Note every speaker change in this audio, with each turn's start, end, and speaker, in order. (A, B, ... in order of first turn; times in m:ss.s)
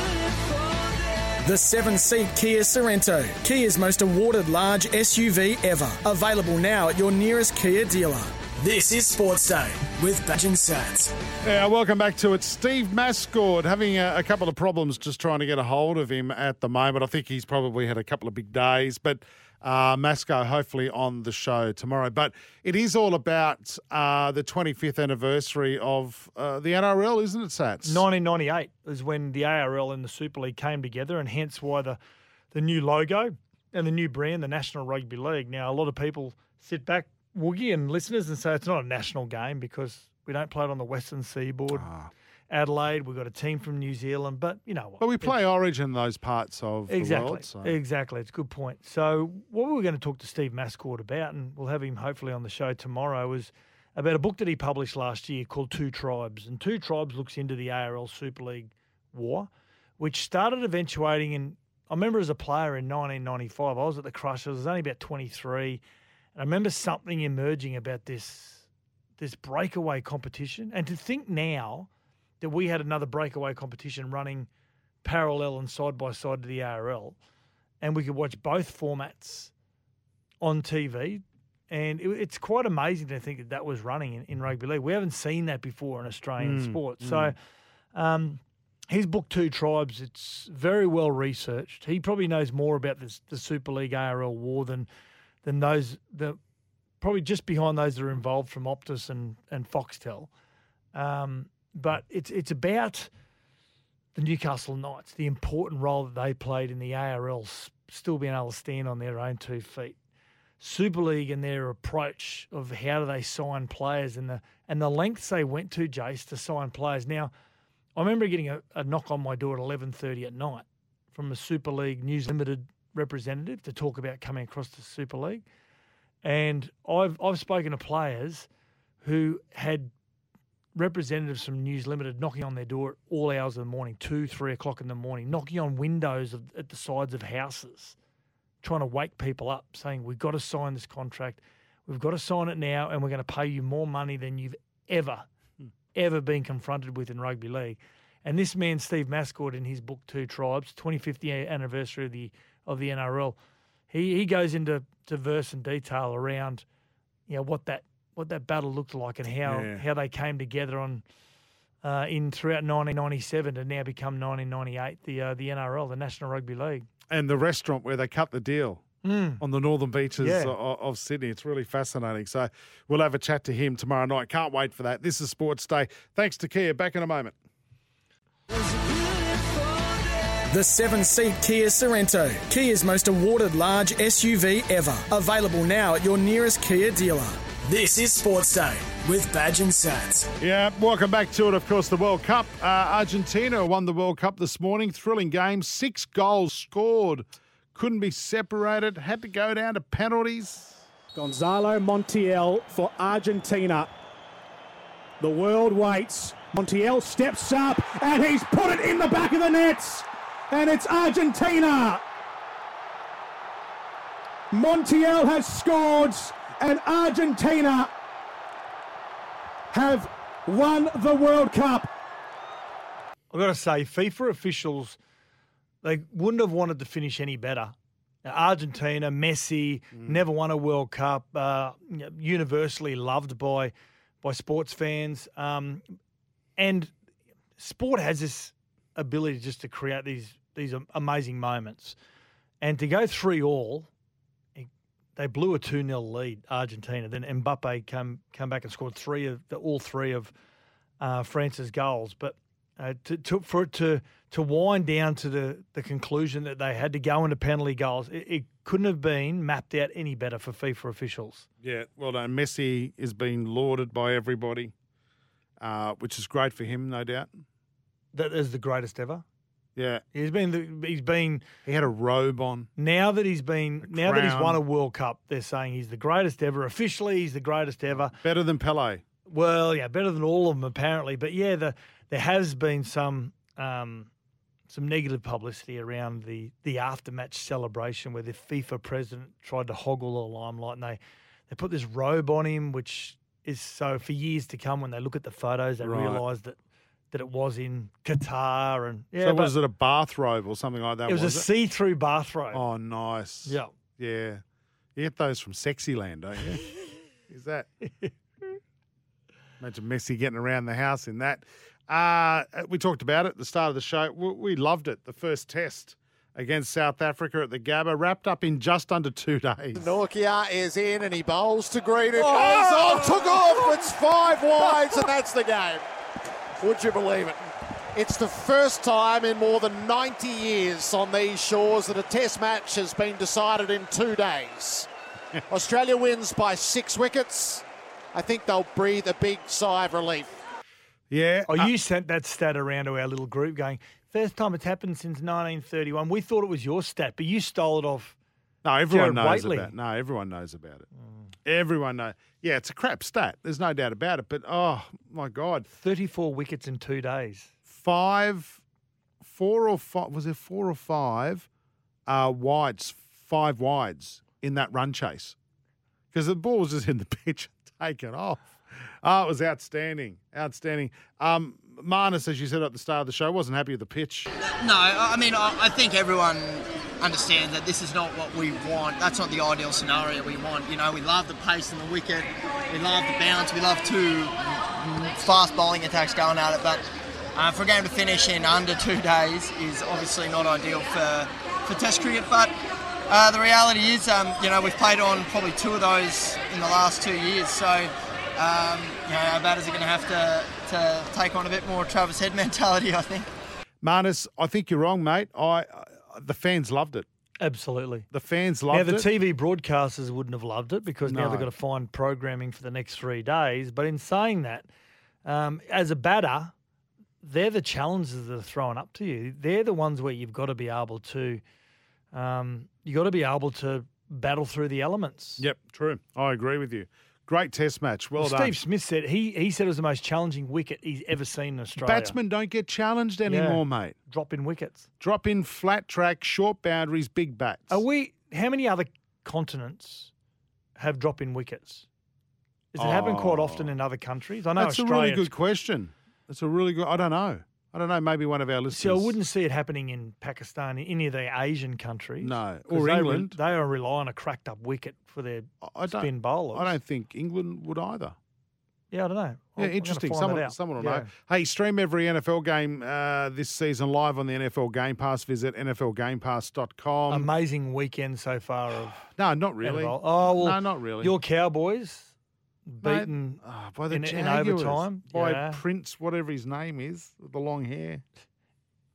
0:01.4-0:11.1 A
0:11.4-0:28.0 B
0:27.8-0:32.0 C
0:32.5-0:41.9 C
0:41.7-0:42.1 B
0:42.5-0:45.4 C
0:45.0-0:47.8 B
0:46.9-1:05.8 C
1:06.4-1:08.7 C
1:09.2-1:11.9 C
1:12.4-1:14.5 C
1:15.0-1:17.2 C
1:17.8-1:19.5 C
1:20.4-1:27.4 C
1:26.4-1:27.4 B
1:27.9-1:34.9 C
1:35.4-1:36.4 C
1:37.0-1:40.3 C
1:40.9-1:43.1 C
1:44.1-1:50.0 C
1:50.6-1:57.3 C
1:58.0-2:05.4 C
2:06.2-2:08.5 C
2:09.0-2:09.9 C
2:10.8-2:18.0 C
2:18.6-2:25.2 C
2:25.9-2:33.4 C
2:33.9-2:36.6 C
2:37.3-2:41.0 C
2:39.4-2:39.8 B
2:41.8-2:46.9 C
2:47.1-2:48.8 B
2:49.0-2:49.4 C
2:49.4-2:57.4 B
2:50.2-2:50.5 C
3:00.5-3:10.3 A
3:10.4-3:20.8 B
3:21.1-3:23.9 D
3:25.2-3:30.0 D
3:30.5-3:32.0 D
3:34.5-3:37.9 D
3:39.7-3:41.9 D
3:43.3-3:45.0 C
3:45.8-3:47.7 C
3:48.2-3:55.8 C
3:49.9-3:50.2 B
3:56.6-3:56.9 C
3:57.6-4:02.0 C
4:02.6-4:03.9 C
4:04.6-4:10.3 C
4:11.0-4:21.5 C
4:21.6-4:24.7 B
4:25.6-4:27.3 B
4:28.1-4:29.2 C
4:29.8-4:30.0 B
4:30.1-4:31.4 C
4:31.6-4:32.7 B
4:32.8-4:38.2 C
4:33.8-4:34.6 B
4:38.0-4:39.0 B
4:39.3-4:44.1 C
4:44.7-4:56.6 C
4:55.8-4:56.2 B
4:57.1-4:59.6 C
4:59.2-5:01.5 B
5:01.1-5:02.6 C
5:02.5-5:04.4 B
5:03.4-5:03.7 C
5:04.9-5:06.7 B
5:07.3-5:07.7 B
5:09.6-5:19.9 B
5:19.8-5:25.8 E
5:22.2-5:23.4 B
5:26.6-5:27.4 E
5:27.9-5:34.9 E
5:35.5-5:40.3 E
5:41.1-5:41.7 B
5:41.5-5:48.2 C
5:48.6-5:50.9 B
5:48.9-5:49.7 C
5:51.4-5:55.7 B
5:55.8-5:57.5 C
5:57.7-5:58.6 B
5:59.2-6:01.5 B
6:02.1-6:05.4 B
6:06.1-6:14.3 B
6:14.4-6:32.5 F
6:33.1-6:43.3 F
6:43.8-6:47.1 B
6:47.4-6:48.1 C
6:48.1-6:49.1 B
6:48.7-6:54.7 C
6:51.0-6:51.5 B
6:55.2-6:56.5 C
6:57.2-7:01.4 C
7:02.1-7:05.4 C
7:05.4-7:08.6 B
7:08.2-7:12.2 C
7:11.8-7:14.0 B
7:13.3-7:14.8 C
7:15.0-7:17.8 B
7:17.7-7:20.1 C
7:20.8-7:21.9 C
7:22.7-7:25.3 C
7:22.8-7:23.7 B
7:24.6-7:29.2 B
7:28.7-7:36.8 C
7:32.2-7:33.4 B
7:35.6-7:38.2 B
7:38.9-7:41.1 C
7:39.6-7:47.3 B
7:47.1-7:49.1 C
7:49.2-7:51.1 B
7:49.6-7:52.1 C
7:52.7-7:53.4 C
7:52.8-7:58.0 B
7:53.9-7:55.6 C